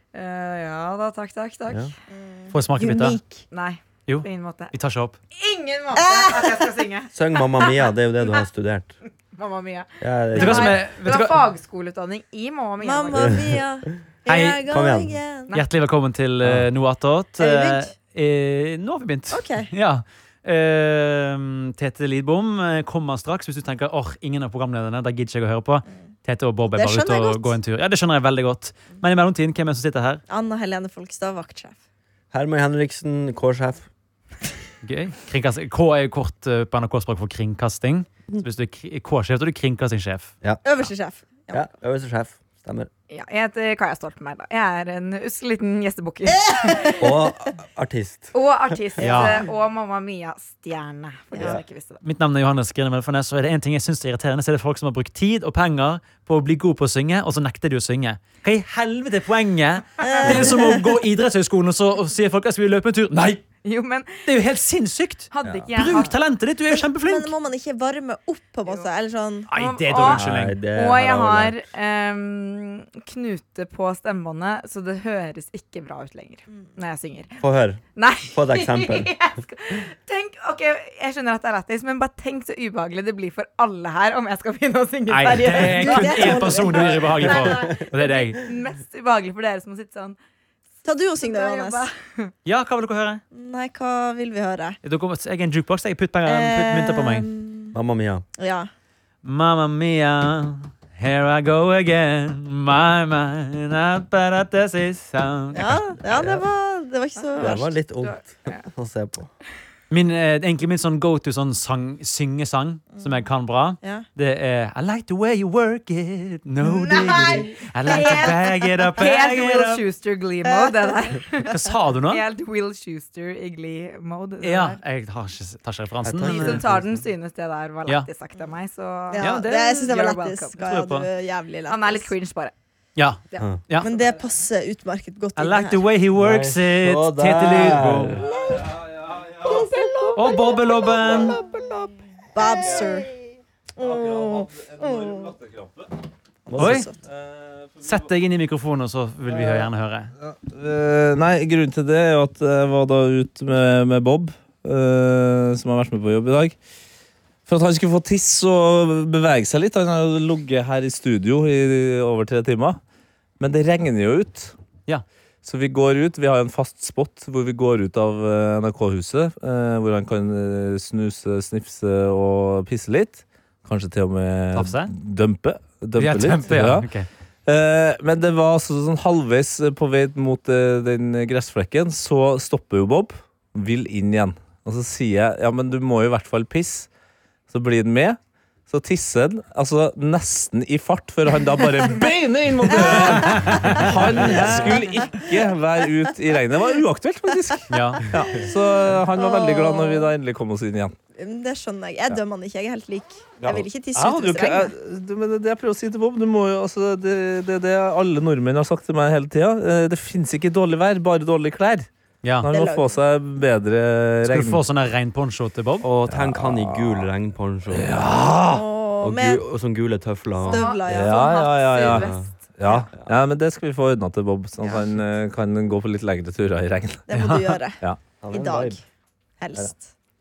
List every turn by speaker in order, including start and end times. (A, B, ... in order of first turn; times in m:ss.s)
0:00.1-0:01.9 A
0:02.1-0:03.4 B
0:02.5-0:03.2 C
0:03.5-0:04.7 A
0:04.1-0:05.2 C
0:05.3-0:08.3 A
0:05.9-0:06.8 B
0:07.1-0:08.9 D
0:09.3-0:13.4 A
0:10.0-0:10.8 D
0:10.3-0:11.4 C
0:12.8-0:15.5 B
0:13.2-0:13.6 D
0:14.3-0:14.6 C
0:14.7-0:15.2 D
0:15.5-0:30.2 C
0:17.5-0:17.8 A
0:19.3-0:19.7 B
0:26.7-0:27.6 B
0:30.3-0:31.8 B
0:32.3-0:33.9 D
0:34.8-0:40.3 C
0:40.6-0:41.7 B
0:41.5-0:42.9 D
0:43.1-0:47.0 A
0:46.3-0:47.3 B
0:46.9-0:48.3 D
0:48.3-0:52.0 A
0:49.0-0:49.4 D
0:49.0-0:49.4 C
0:51.3-0:51.6 B
0:52.0-1:03.4 C
1:00.0-1:00.8 B
1:03.6-1:04.3 A
1:04.2-1:07.3 C
1:05.3-1:06.1 A
1:05.4-1:05.7 D
1:06.7-1:09.5 B
1:09.5-1:10.6 C
1:09.5-1:17.4 A
1:09.9-1:11.6 D
1:17.4-1:19.1 D
1:17.9-1:30.2 A
1:25.1-1:28.4 C
1:25.5-1:26.9 B
1:27.3-1:27.6 D
1:30.8-1:31.9 B
1:31.2-1:32.3 A
1:32.4-1:33.2 C
1:33.3-1:34.8 B
1:34.8-1:37.3 C
1:36.2-1:37.8 B
1:37.7-1:38.2 D
1:38.4-1:38.7 B
1:39.2-1:45.8 C
1:45.5-1:47.7 B
1:46.0-1:46.4 D
1:47.4-1:48.6 A
1:47.4-1:49.3 D
1:49.9-1:59.8 C
1:56.9-1:57.3 B
1:57.0-2:04.8 A
2:00.4-2:01.1 B
2:01.4-2:02.2 C
2:04.4-2:06.6 C
2:06.0-2:07.0 D
2:06.2-2:10.7 A
2:09.1-2:12.1 B
2:09.2-2:09.5 C
2:10.6-2:11.1 C
2:11.7-2:12.5 A
2:13.0-2:13.9 C
2:13.8-2:15.8 B
2:15.4-2:18.2 C
2:16.1-2:18.3 D
2:18.8-2:19.3 E
2:19.5-2:20.3 B
2:20.1-2:21.4 C
2:21.5-2:21.9 D
2:22.3-2:23.1 B
2:23.8-2:25.3 B
2:23.8-2:25.9 E
2:26.5-2:26.8 D
2:26.6-2:26.9 B
2:26.6-2:26.9 C
2:27.1-2:28.0 E
2:27.8-2:30.1 C
2:30.2-2:36.6 E
2:37.5-2:42.8 E
2:43.4-2:44.5 E
2:45.4-2:56.9 E
2:54.5-2:54.9 C
2:56.0-2:57.1 C
2:57.5-3:06.9 E
3:07.5-3:20.9 E
3:12.8-3:13.0 B
3:13.1-3:14.7 C
3:17.7-3:18.1 C
3:18.1-3:18.4 D
3:19.1-3:20.1 B
3:21.2-3:24.7 B
3:23.4-3:31.9 E
3:32.4-3:34.6 E
3:32.5-3:33.0 B
3:34.2-3:35.8 C
3:35.8-3:38.1 D
3:36.1-3:37.1 E
3:37.7-3:38.6 E
3:38.5-3:39.4 B
3:39.0-3:40.7 D
3:40.4-3:42.4 A
3:40.5-3:41.4 B
3:40.9-3:47.1 E
3:41.8-3:42.3 D
3:47.1-3:47.8 B
3:47.1-3:47.6 C
3:48.2-3:48.8 D
3:48.3-3:48.8 B
3:49.4-3:49.8 B